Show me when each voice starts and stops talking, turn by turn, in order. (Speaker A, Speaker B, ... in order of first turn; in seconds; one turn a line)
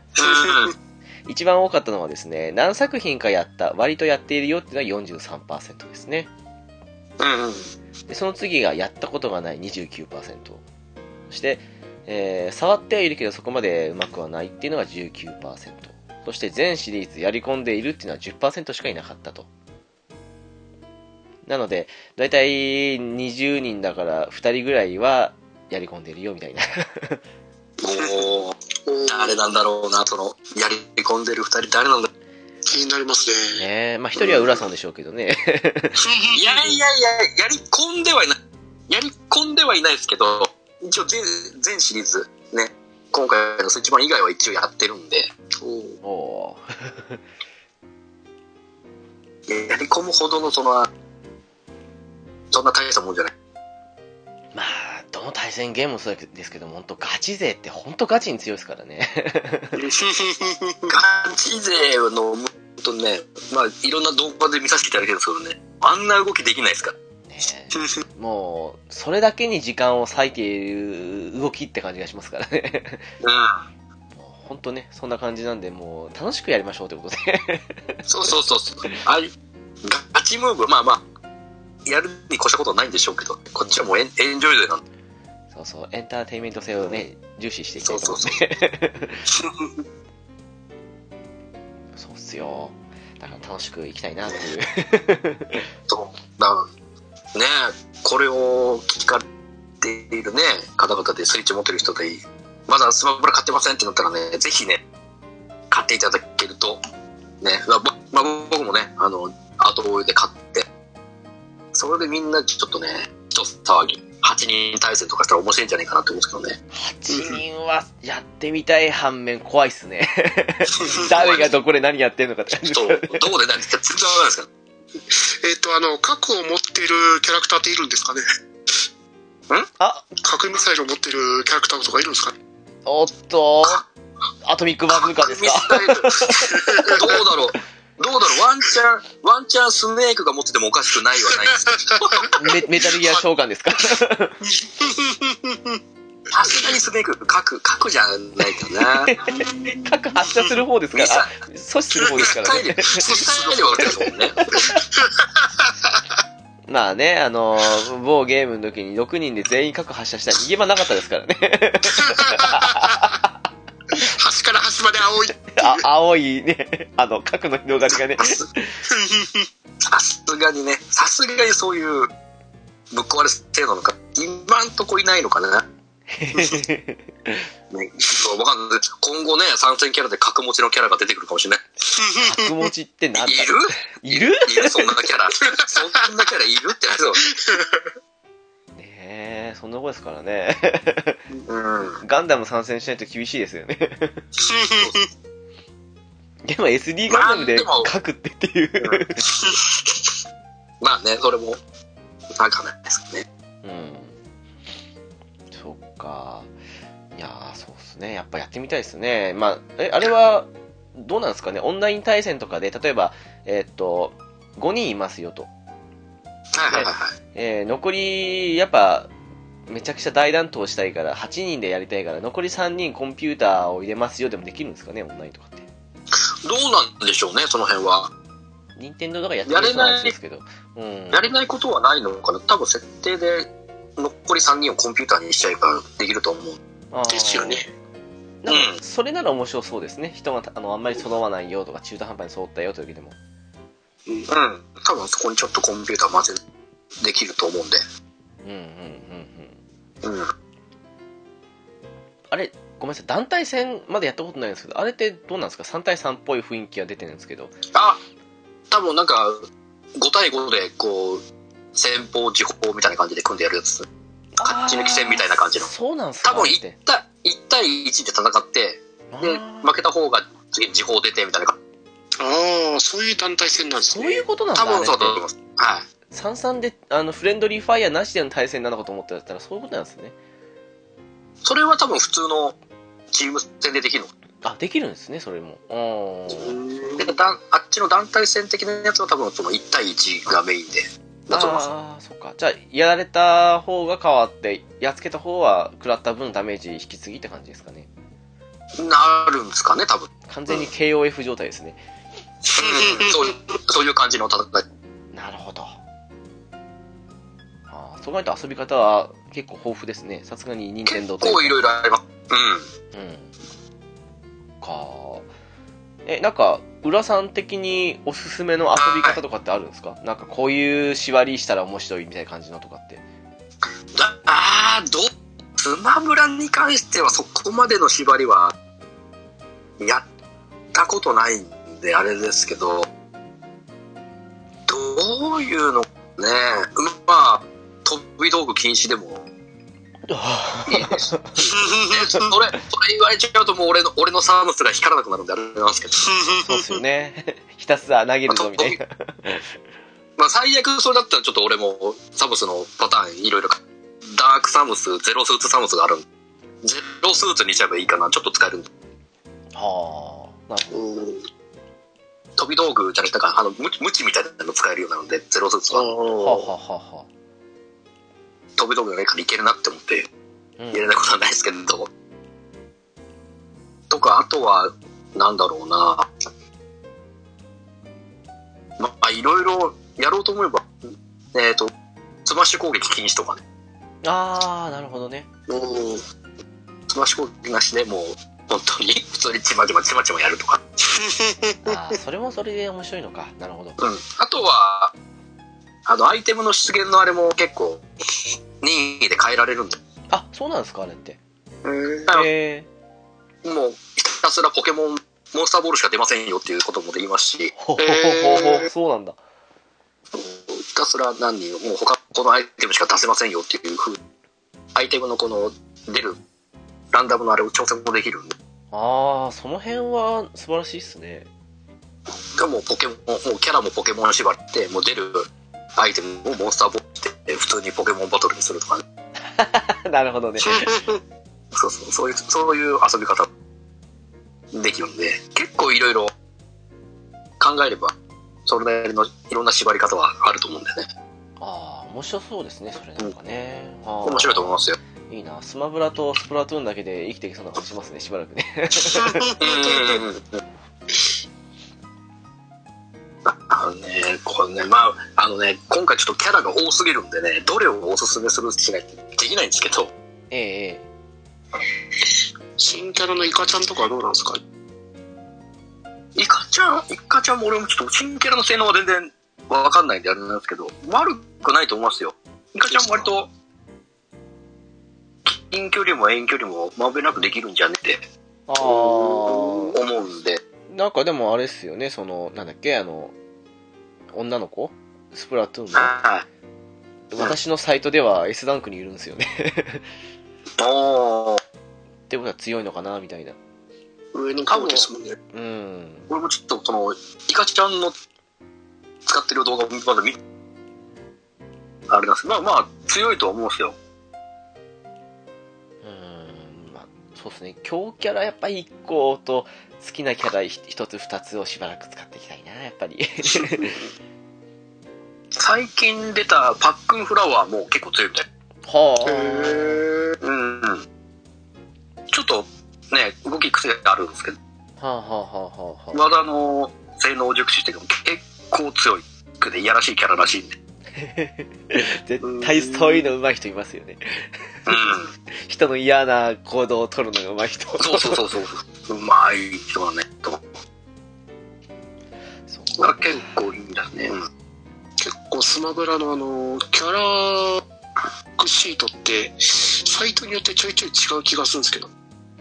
Speaker A: 0.2-0.7
Speaker B: 0.2-0.7
Speaker C: 1.3-6.3
Speaker A: 7.2-7.7
Speaker C: 8.1-10.6
Speaker C: 11.3-19.5
Speaker C: 21.4-27.2
Speaker A: 27.8-32.1
Speaker B: 28.9-29.5
Speaker B: 32.7-33.6
Speaker C: 33.5-36.0
Speaker A: 34.2-34.6
Speaker B: 36.0-36.6
Speaker A: 36.4-38.4
Speaker A: 38.9-46.0
Speaker C: 46.0-47.2
Speaker A: 49.5-50.9
Speaker A: 52.5-53.3
Speaker C: 54.5-59.8
Speaker B: 59.8-61.0
Speaker A: 60.9-66.9
Speaker C: 67.3-73.1
Speaker A: 73.2-73.6
Speaker C: 74.2-78.4
Speaker A: 78.1-79.3
Speaker A: 79.8-81.0
Speaker A: 81.8-84.8
Speaker C: 85.5-89.2
Speaker A: 87.8-88.4
Speaker C: 92.0-95.7
Speaker A: 95.9-96.7
Speaker A: 97.3-99.2
Speaker A: 99.8-104.8
Speaker A: 105.7-106.8
Speaker A: 107.4-110.7
Speaker A: 111.7-116.6
Speaker C: 116.7-123.2
Speaker B: 117.1-117.4
Speaker A: 120.9-121.5
Speaker A: 122.5-124.5
Speaker B: 125.1-128.2
Speaker C: 129.8-130.1
Speaker B: 130.2-132.3
Speaker C: 132.9-133.8
Speaker C: 134.4-137.2
Speaker A: 134.9-136.2
Speaker B: 136.4-137.1
Speaker A: 136.9-142.4
Speaker B: 141.2-142.3
Speaker C: 142.3-144.4
Speaker B: 144.4-145.8
Speaker A: 146.3-149.2
Speaker B: 146.5-146.8
Speaker C: 148.8-153.2
Speaker B: 149.3-150.5
Speaker A: 150.9-151.3
Speaker B: 152.0-152.3
Speaker A: 152.1-154.5
Speaker B: 152.9-154.0
Speaker C: 153.8-154.8
Speaker B: 154.7-156.0
Speaker C: 156.7-163.3
Speaker B: 161.9-163.1
Speaker B: 163.9-165.8
Speaker C: 165.5-168.8
Speaker A: 168.2-168.4
Speaker B: 168.9-169.5
Speaker A: 169.8-172.1
Speaker A: 172.9-175.7
Speaker C: 176.1-177.5
Speaker A: 177.7-181.7
Speaker B: 181.9-182.7
Speaker C: 182.2-184.9
Speaker A: 183.2-187.3
Speaker B: 185.8-186.1
Speaker B: 187.3-187.8
Speaker C: 188.8-191.2
Speaker A: 191.5-192.0
Speaker C: 192.0-194.2
Speaker B: 194.4-195.0
Speaker C: 196.5-199.3
Speaker A: 197.1-197.9
Speaker A: 198.8-200.0
Speaker A: 200.8-201.6
Speaker A: 202.4-203.3
Speaker C: 203.6-204.2
Speaker C: 205.5-206.5
Speaker C: 207.2-215.5
Speaker A: 216.5-217.1
Speaker C: 216.7-219.1
Speaker C: 219.7-225.7
Speaker A: 226.4-228.1
Speaker C: 228.8-231.3
Speaker A: 229.5-230.1
Speaker A: 231.1-236.6
Speaker C: 236.9-237.7
Speaker B: 237.1-237.7
Speaker C: 238.4-243.2
Speaker A: 238.5-238.8
Speaker A: 244.3-246.4
Speaker A: 247.0-247.8
Speaker C: 248.4-249.6
Speaker A: 250.0-250.3
Speaker C: 252.3-257.5
Speaker A: 257.7-258.0
Speaker A: 258.7-261.2
Speaker A: 261.8-263.9
Speaker C: 264.4-266.8
Speaker A: 264.4-265.7
Speaker A: 266.2-271.6
Speaker C: 269.1-269.8
Speaker B: 272.2-274.2
Speaker C: 273.9-275.2
Speaker A: 274.6-275.9
Speaker C: 276.1-280.1
Speaker A: 281.4-282.6
Speaker A: 283.1-284.1
Speaker C: 284.4-286.6
Speaker B: 286.3-287.1
Speaker A: 287.0-291.7
Speaker C: 291.3-297.9
Speaker A: 298.8-300.6
Speaker C: 300.3-301.8
Speaker A: 302.5-304.6
Speaker B: 302.6-303.3
Speaker C: 305.1-305.8
Speaker C: 307.7-311.6
Speaker A: 310.9-312.7
Speaker C: 312.9-313.3
Speaker C: 314.6-315.3
Speaker C: 316.1-323.0
Speaker A: 318.8-319.2
Speaker A: 323.9-328.5
Speaker A: 330.7-332.9
Speaker A: 334.7-339.3
Speaker C: 340.1-341.4
Speaker A: 340.7-346.1
Speaker B: 341.5-342.3
Speaker B: 346.0-346.7
Speaker C: 346.3-349.4
Speaker A: 348.3-348.8
Speaker A: 350.2-353.6
Speaker A: 354.1-356.1
Speaker A: 356.6-358.7
Speaker C: 359.6-360.9
Speaker B: 360.7-361.2
Speaker A: 362.4-365.9
Speaker B: 365.7-366.5
Speaker C: 366.2-367.1
Speaker A: 368.6-370.1
Speaker C: 370.6-370.9
Speaker A: 370.7-371.9
Speaker A: 373.9-376.1
Speaker A: 378.8-380.8
Speaker A: 381.3-381.7
Speaker A: 382.3-383.4
Speaker C: 384.0-385.3
Speaker B: 385.5-386.0
Speaker A: 386.9-390.6
Speaker B: 390.9-391.9
Speaker C: 391.6-393.8
Speaker A: 393.8-394.9
Speaker A: 395.9-397.8
Speaker A: 398.6-399.8
Speaker C: 400.1-401.2
Speaker B: 401.6-402.1
Speaker C: 402.1-402.7
Speaker A: 403.4-407.5
Speaker C: 407.6-409.2
Speaker B: 407.8-408.7
Speaker A: 410.1-414.0
Speaker A: 414.8-416.2
Speaker A: 416.9-418.4
Speaker C: 418.7-421.3
Speaker A: 422.4-428.8
Speaker C: 429.4-430.7
Speaker B: 430.4-431.0
Speaker A: 431.6-433.3
Speaker A: 434.5-436.1
Speaker A: 437.4-437.9
Speaker A: 438.5-440.9
Speaker C: 441.4-449.4
Speaker A: 444.0-444.8
Speaker B: 448.9-450.0
Speaker A: 449.4-450.4
Speaker A: 453.2-459.9
Speaker C: 460.3-460.9
Speaker B: 462.6-464.4
Speaker A: 466.2-473.3
Speaker B: 472.7-473.1
Speaker A: 475.2-478.0
Speaker C: 478.5-479.8
Speaker A: 478.7-480.4
Speaker C: 480.7-483.1
Speaker C: 484.1-485.9
Speaker A: 485.7-486.2
Speaker C: 487.1-489.9
Speaker A: 490.6-491.4
Speaker C: 492.1-493.4
Speaker B: 494.1-495.2
Speaker A: 494.5-494.9
Speaker C: 495.3-496.1
Speaker A: 496.1-497.9
Speaker A: 499.1-500.2
Speaker A: 501.9-503.8
Speaker C: 505.8-513.9
Speaker A: 515.4-518.3
Speaker C: 518.6-519.8
Speaker B: 519.0-520.2
Speaker A: 520.2-520.9
Speaker A: 522.1-524.4
Speaker C: 524.8-526.0
Speaker A: 525.9-530.6
Speaker C: 531.0-538.2
Speaker B: 532.2-533.1
Speaker A: 534.7-535.1
Speaker A: 537.8-540.5
Speaker C: 542.5-543.3
Speaker A: 542.8-544.2
Speaker B: 545.0-547.6
Speaker B: 548.4-551.9